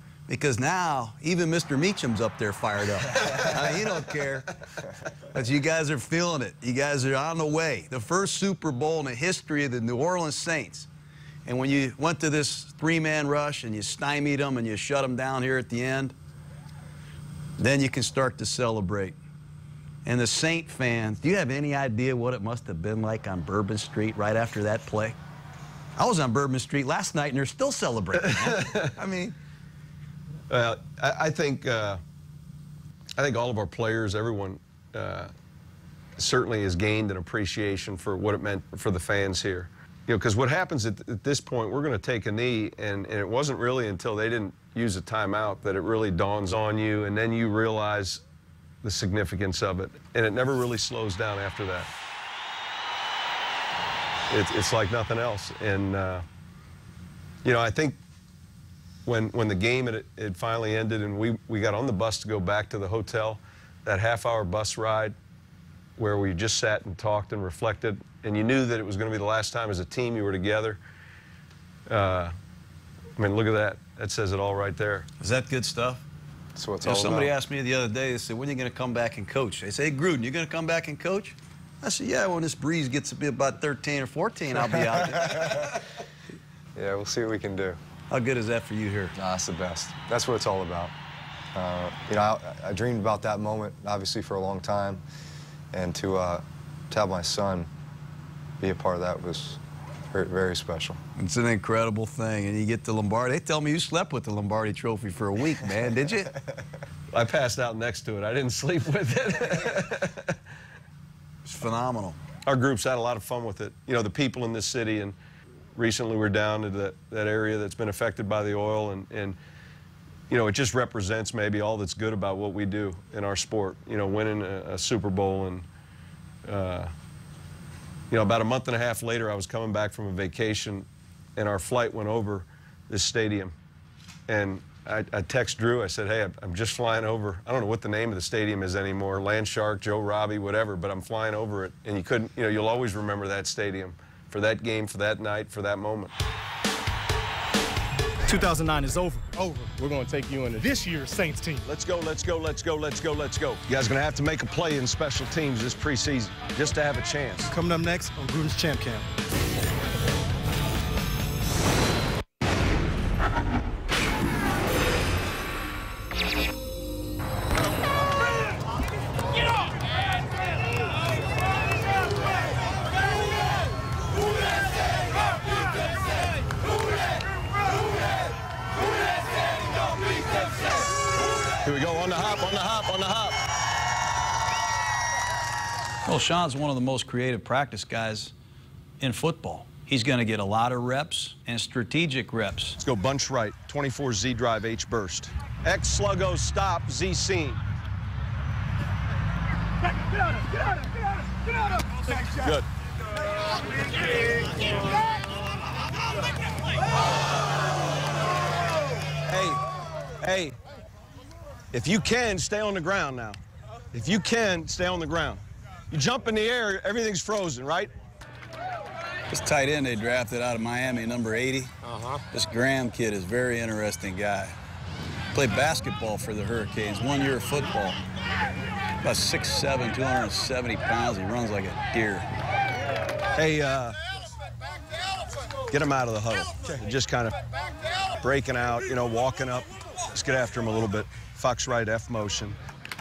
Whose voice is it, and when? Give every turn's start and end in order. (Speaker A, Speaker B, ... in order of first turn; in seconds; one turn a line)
Speaker A: 0.3-4.5
Speaker A: 5.3-10.9
Speaker A: 11.4-16.1
Speaker A: 17.6-19.2
Speaker A: 20.0-25.2
Speaker A: 26.0-29.3
Speaker B: 28.4-28.9
Speaker B: 30.5-32.0
Speaker B: 33.2-35.3
Speaker B: 36.2-48.2
Speaker B: 48.8-51.9
Speaker B: 54.3-56.2
Speaker B: 57.4-58.0
Speaker B: 59.0-65.2
Speaker B: 66.0-70.8
Speaker B: 71.9-72.3
Speaker B: 73.2-75.1
Speaker A: 75.2-76.0
Speaker C: 76.5-77.3
Speaker A: 76.8-85.6
Speaker C: 85.1-85.7
Speaker C: 86.8-87.8
Speaker A: 88.1-89.1
Speaker C: 89.2-90.9
Speaker C: 91.5-95.0
Speaker C: 95.7-97.7
Speaker C: 98.6-99.6
Speaker C: 100.1-101.0
Speaker A: 101.2-106.3
Speaker B: 107.1-110.4
Speaker A: 111.4-112.2
Speaker B: 112.5-115.2
Speaker B: 115.8-119.4
Speaker B: 120.3-125.7
Speaker B: 126.4-126.9
Speaker B: 128.1-130.8
Speaker B: 131.4-133.5
Speaker B: 134.3-146.1
Speaker D: 148.2-151.6
Speaker B: 151.6-157.5
Speaker D: 157.5-159.1
Speaker B: 181.6-183.4
Speaker A: 186.1-188.3
Speaker A: 189.0-192.8
Speaker B: 192.8-197.6
Speaker B: 202.2-202.7
Speaker B: 209.3-209.6
Speaker B: 210.2-210.6
Speaker B: 211.7-213.4
Speaker B: 213.9-217.9
Speaker A: 219.3-221.7
Speaker A: 222.3-224.5
Speaker A: 225.3-228.0
Speaker A: 229.0-232.3
Speaker B: 233.3-233.9
Speaker B: 235.7-237.4
Speaker B: 238.2-242.6